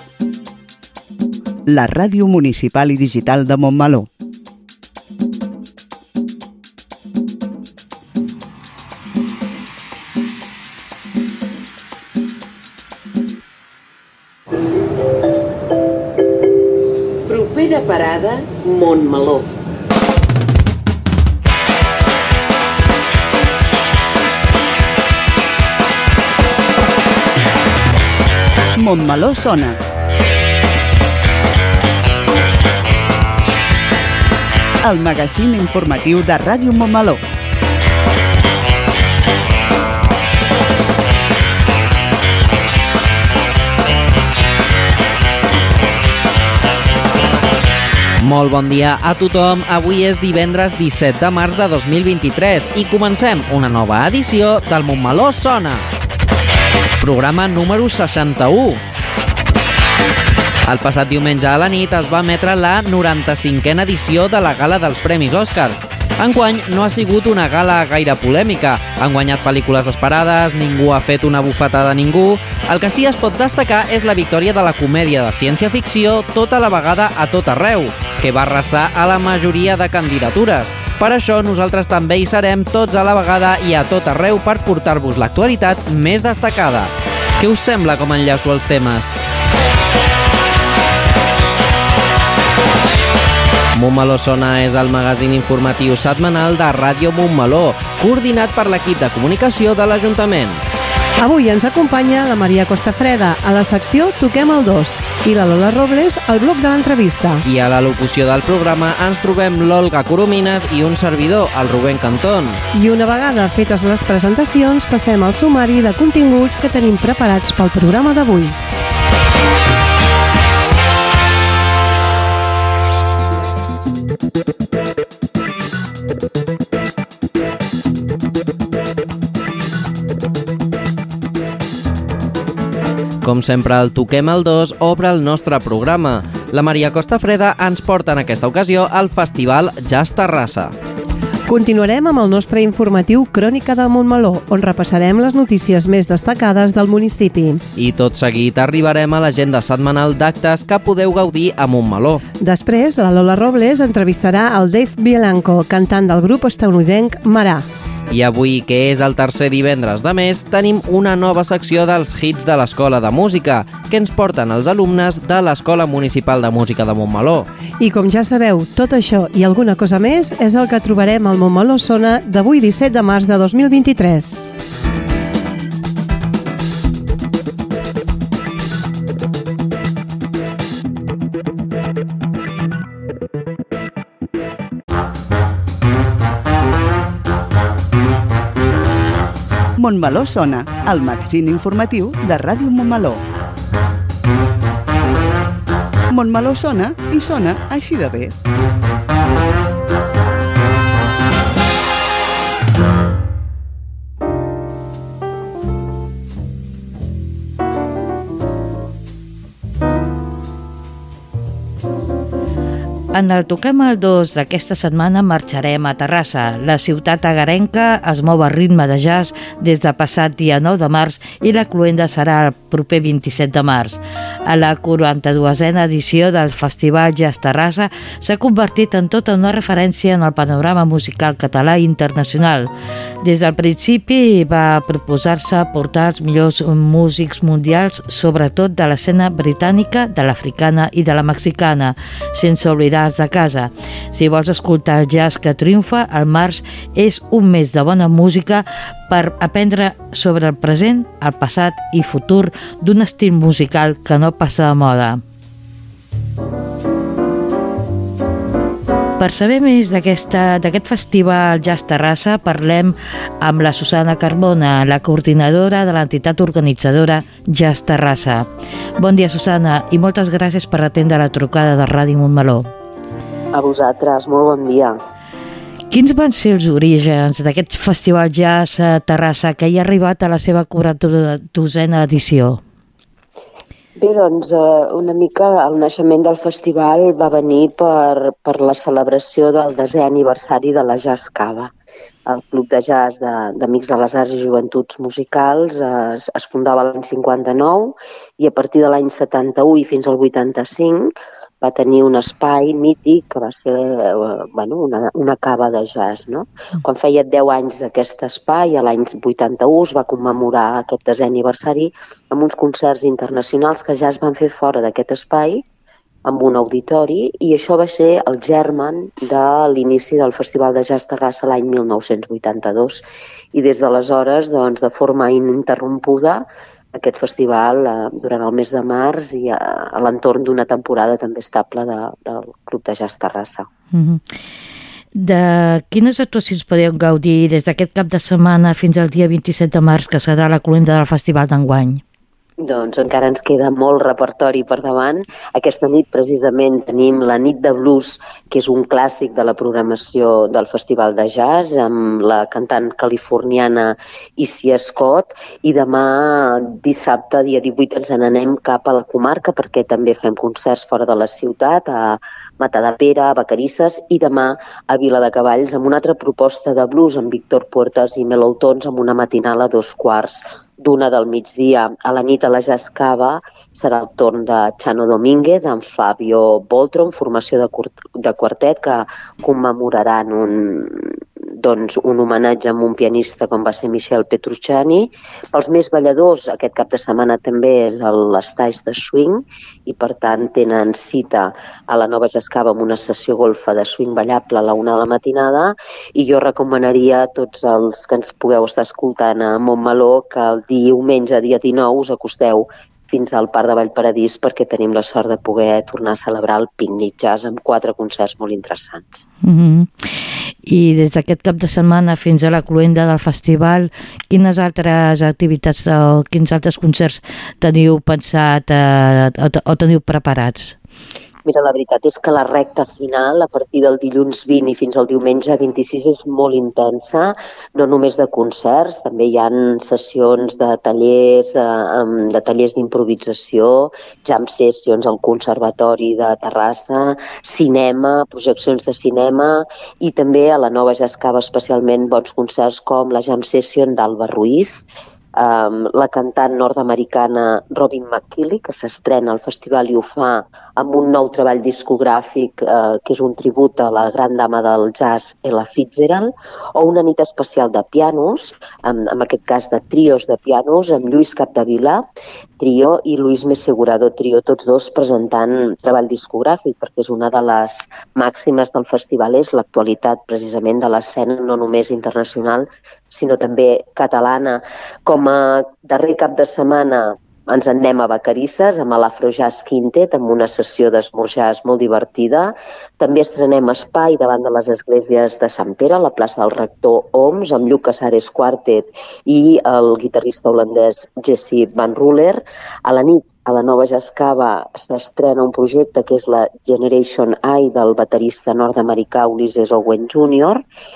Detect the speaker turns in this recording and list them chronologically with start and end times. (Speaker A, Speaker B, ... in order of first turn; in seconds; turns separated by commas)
Speaker A: 1.7-4.1, Speaker B: 17.3-19.5, Speaker A: 28.8-29.8, Speaker A: 34.8-37.2, Speaker C: 48.2-55.9, Speaker C: 57.0-58.8, Speaker C: 60.7-89.2, Speaker C: 93.7-100.6, Speaker D: 101.2-107.4, Speaker C: 107.4-112.6, Speaker D: 112.7-118.6, Speaker C: 133.2-140.8, Speaker D: 141.5-147.6, Speaker C: 147.8-152.2, Speaker D: 152.4-157.7, Speaker C: 158.1-167.5, Speaker D: 167.8-174.5, Speaker A: 189.8-193.2, Speaker A: 196.1-198.3, Speaker E: 213.1-232.7, Speaker E: 233.2-255.2, Speaker E: 259.2-268.5, Speaker E: 269.0-272.7, Speaker F: 273.5-275.0, Speaker E: 275.9-282.6, Speaker F: 284.0-291.7, Speaker F: 292.3-315.6, Speaker F: 316.3-323.0, Speaker F: 323.5-333.7, Speaker E: 333.9-334.2, Speaker E: 335.2-342.0, Speaker F: 342.6-409.2, Speaker E: 409.4-420.8, Speaker F: 421.5-444.9, Speaker F: 445.4-462.1, Speaker F: 462.6-500.6